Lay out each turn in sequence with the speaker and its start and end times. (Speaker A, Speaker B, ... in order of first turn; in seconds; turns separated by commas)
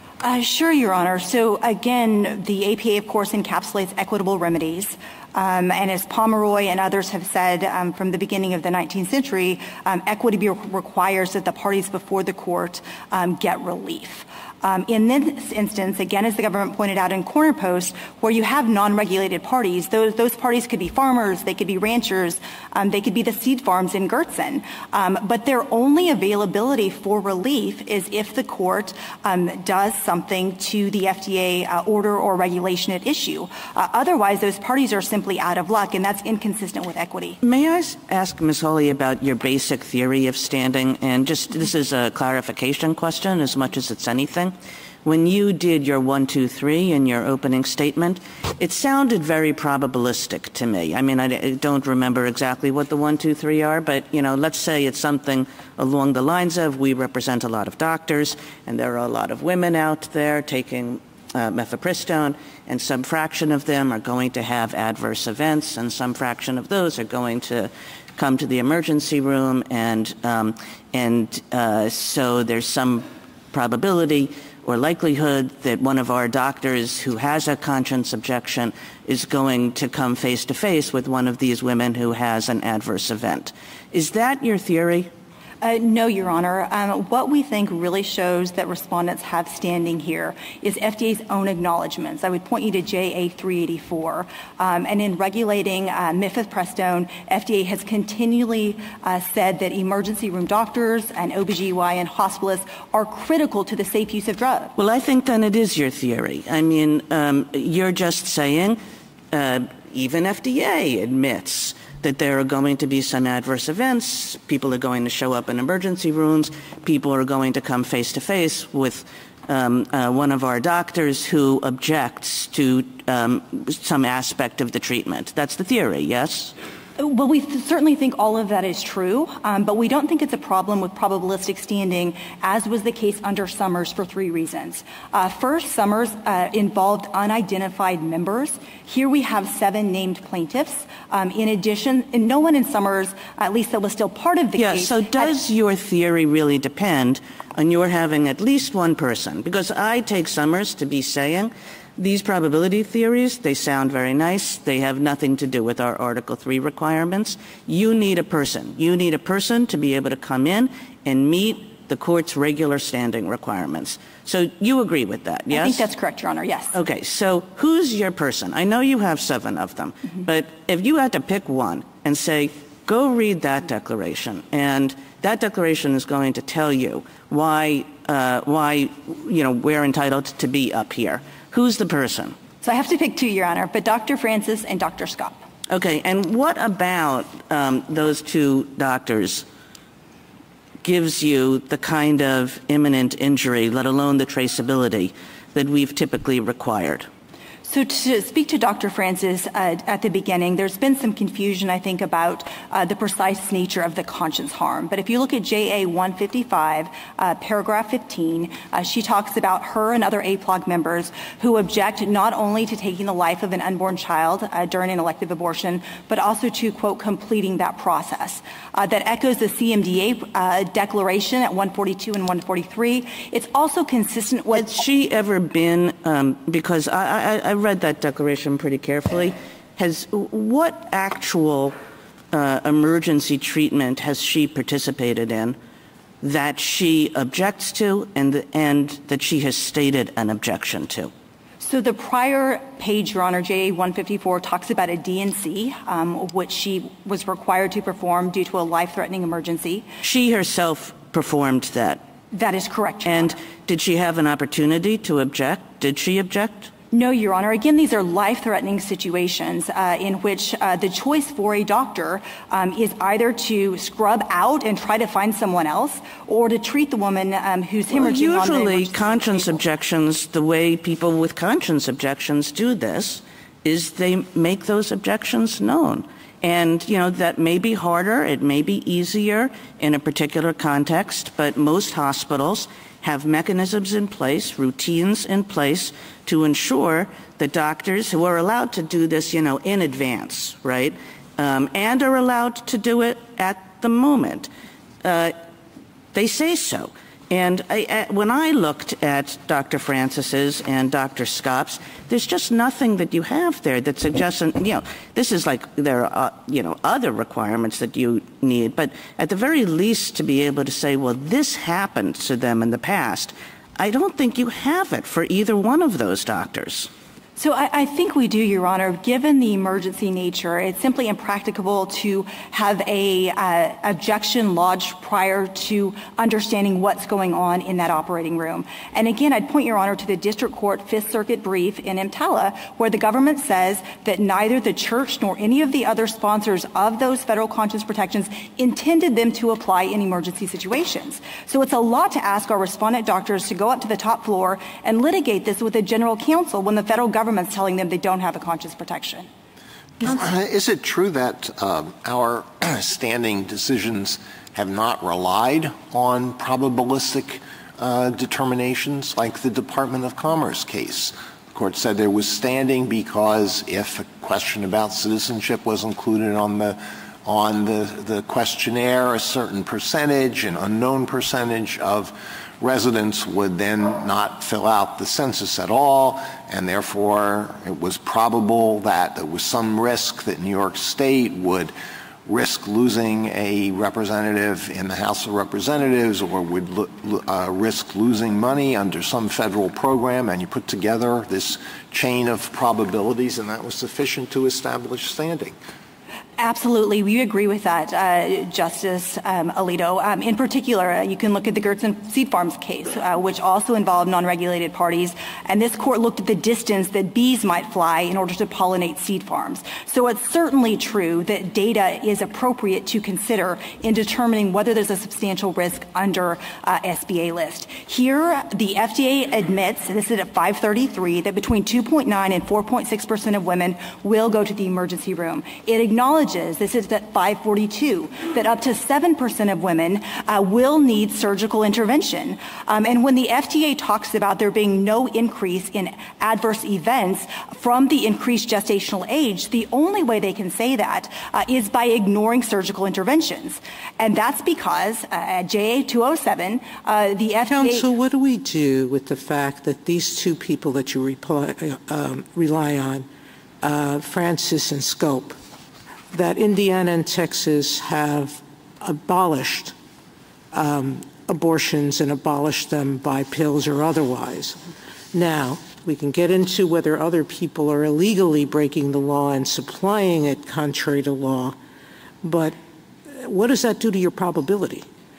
Speaker A: 0.2-37.4, Speaker B: 37.4-85.1, Speaker A: 85.6-104.7, Speaker B: 104.8-108.8, Speaker B: 109.3-126.5, Speaker A: 127.0-145.3, Speaker B: 144.6-165.9, Speaker A: 165.5-166.8, Speaker B: 166.7-182.3, Speaker A: 182.6-185.4, Speaker B: 185.7-189.4, Speaker B: 190.8-197.1, Speaker A: 197.6-224.8, Speaker B: 224.5-231.7, Speaker B: 232.3-235.6, Speaker B: 236.2-241.1, Speaker A: 241.6-249.9, Speaker B: 250.0-252.0, Speaker A: 252.3-253.3, Speaker B: 253.0-256.7, Speaker A: 256.9-269.6, Speaker B: 267.9-294.5, Speaker B: 295.0-295.4, Speaker B: 296.1-316.9, Speaker A: 317.4-349.3, Speaker C: 350.0-381.7, Speaker C: 382.2-395.5, Speaker A: 396.4-447.9, Speaker D: 447.5-453.1, Speaker D: 453.6-455.4, Speaker D: 456.1-459.7, Speaker D: 460.5-464.6, Speaker D: 465.1-471.6, Speaker D: 472.2-472.6, Speaker D: 473.2-474.9